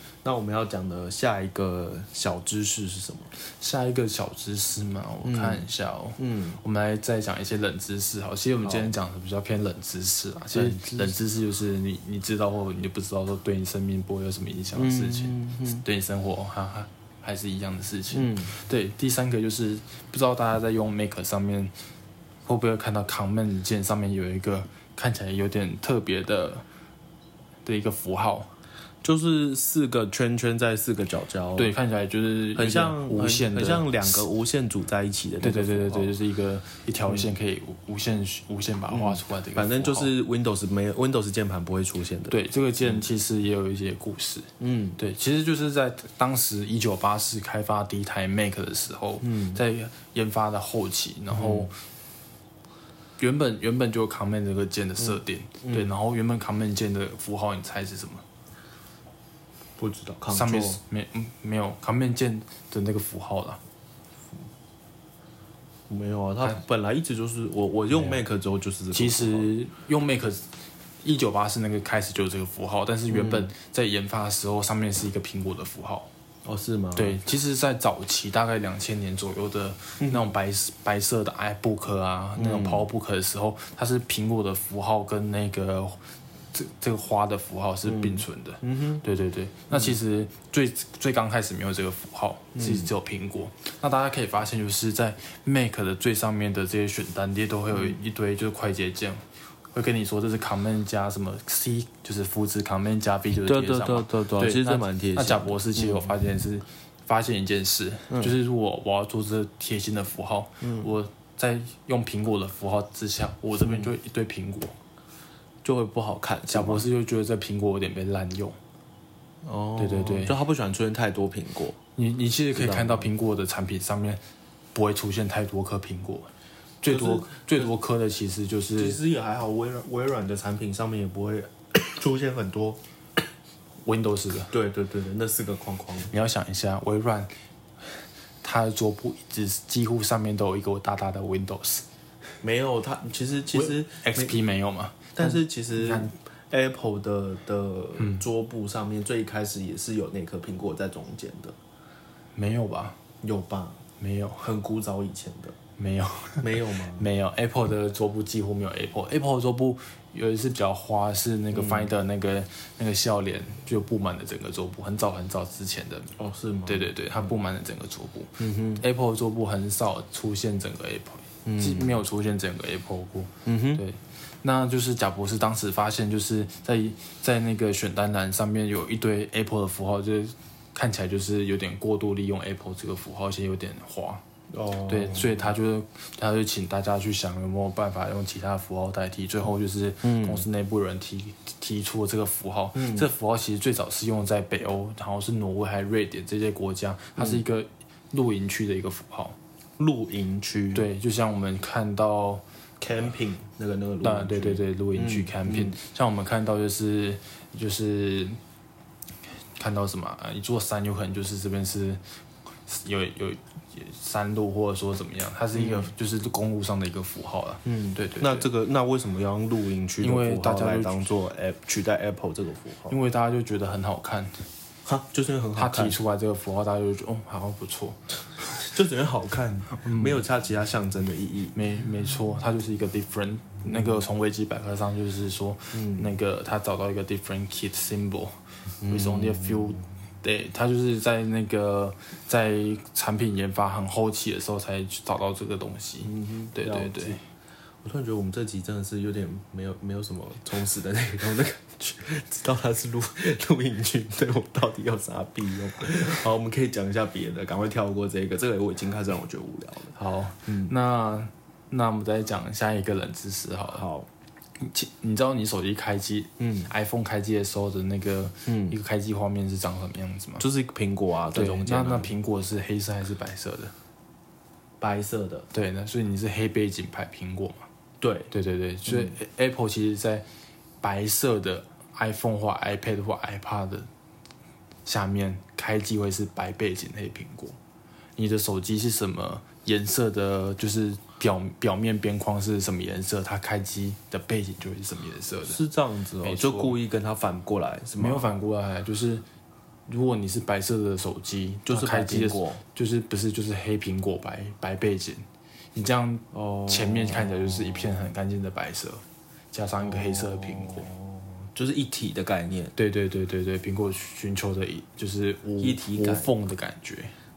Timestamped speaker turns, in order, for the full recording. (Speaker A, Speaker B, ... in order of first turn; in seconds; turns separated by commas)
Speaker A: 0.2-3.3, Speaker B: 3.4-21.7, Speaker A: 5.2-6.6, Speaker A: 8.6-8.9, Speaker A: 10.5-11.2, Speaker A: 14.7-15.8, Speaker A: 18.1-18.5, Speaker B: 22.4-26.6, Speaker B: 27.6-28.5, Speaker A: 29.0-31.7, Speaker B: 31.5-34.3, Speaker A: 32.5-36.1, Speaker B: 35.4-40.1, Speaker A: 38.9-43.0, Speaker B: 42.3-51.8, Speaker A: 44.6-45.0, Speaker A: 49.2-49.6, Speaker A: 51.3-51.7, Speaker B: 53.2-58.2, Speaker A: 55.6-55.9, Speaker A: 59.8-60.8, Speaker B: 60.3-63.6, Speaker A: 65.9-69.5, Speaker B: 67.9-68.2, Speaker B: 68.9-76.1, Speaker A: 73.1-73.5, Speaker A: 76.4-77.2, Speaker B: 77.0-86.0, Speaker A: 80.0-80.3, Speaker A: 82.4-82.9, Speaker B: 86.5-114.7, Speaker A: 87.8-89.0, Speaker A: 89.7-90.0, Speaker A: 92.5-92.9, Speaker A: 97.7-98.0, Speaker A: 103.3-106.2, Speaker A: 108.1-108.3, Speaker A: 110.6-110.9, Speaker A: 113.6-113.9, Speaker A: 115.6-116.8, Speaker B: 116.5-118.6, Speaker A: 119.4-121.8, Speaker B: 119.8-120.3, Speaker B: 122.0-124.2, Speaker A: 122.5-123.1, Speaker B: 124.7-126.3, Speaker B: 126.8-129.0, Speaker A: 126.8-127.7, Speaker A: 128.8-132.8, Speaker B: 133.8-134.5, Speaker A: 134.5-136.1, Speaker B: 136.1-137.3, Speaker B: 138.4-141.8, Speaker A: 142.4-144.4, Speaker B: 143.5-146.1, Speaker A: 145.1-151.6, Speaker B: 148.0-148.2, Speaker B: 152.3-153.0, Speaker A: 153.2-153.8, Speaker B: 154.0-154.4, Speaker A: 154.4-155.6, Speaker B: 155.8-166.1, Speaker A: 156.4-157.1, Speaker A: 161.5-161.9, Speaker A: 166.2-167.3, Speaker B: 166.7-184.2, Speaker A: 168.4-168.8, Speaker A: 171.4-172.0, Speaker A: 173.4-173.8, Speaker A: 184.5-185.5, Speaker B: 184.9-199.4, Speaker A: 190.0-190.4, Speaker A: 192.8-193.1, Speaker A: 197.2-197.4, Speaker A: 199.8-200.9, Speaker B: 200.7-202.4, Speaker A: 202.8-205.8, Speaker B: 204.0-208.4, Speaker B: 209.6-212.0, Speaker B: 212.7-218.5, Speaker A: 215.5-215.9, Speaker A: 217.6-222.9, Speaker B: 220.0-220.9, Speaker B: 222.9-224.4, Speaker A: 224.8-226.0, Speaker B: 225.6-228.0, Speaker A: 228.5-231.6, Speaker B: 229.8-230.2, Speaker B: 231.5-247.2, Speaker A: 233.7-234.0, Speaker A: 235.7-236.1, Speaker A: 238.8-239.9, Speaker A: 246.0-247.2, Speaker A: 247.8-259.9, Speaker B: 259.9-263.9, Speaker A: 260.4-260.7, Speaker A: 263.7-264.1, Speaker B: 264.6-270.4, Speaker A: 266.4-266.7, Speaker A: 268.4-268.8, Speaker A: 270.4-272.1, Speaker B: 271.3-273.7, Speaker A: 274.8-275.5, Speaker B: 275.5-277.7, Speaker A: 278.0-278.3, Speaker B: 278.3-280.2, Speaker A: 278.9-279.1, Speaker B: 280.8-283.9, Speaker B: 284.9-287.6, Speaker B: 288.1-295.6, Speaker A: 295.4-298.3, Speaker B: 296.2-296.8, Speaker B: 298.0-299.2, Speaker B: 299.9-310.9, Speaker A: 301.6-302.6, Speaker A: 306.3-308.1, Speaker A: 309.8-312.7, Speaker B: 312.7-317.1, Speaker A: 315.6-316.3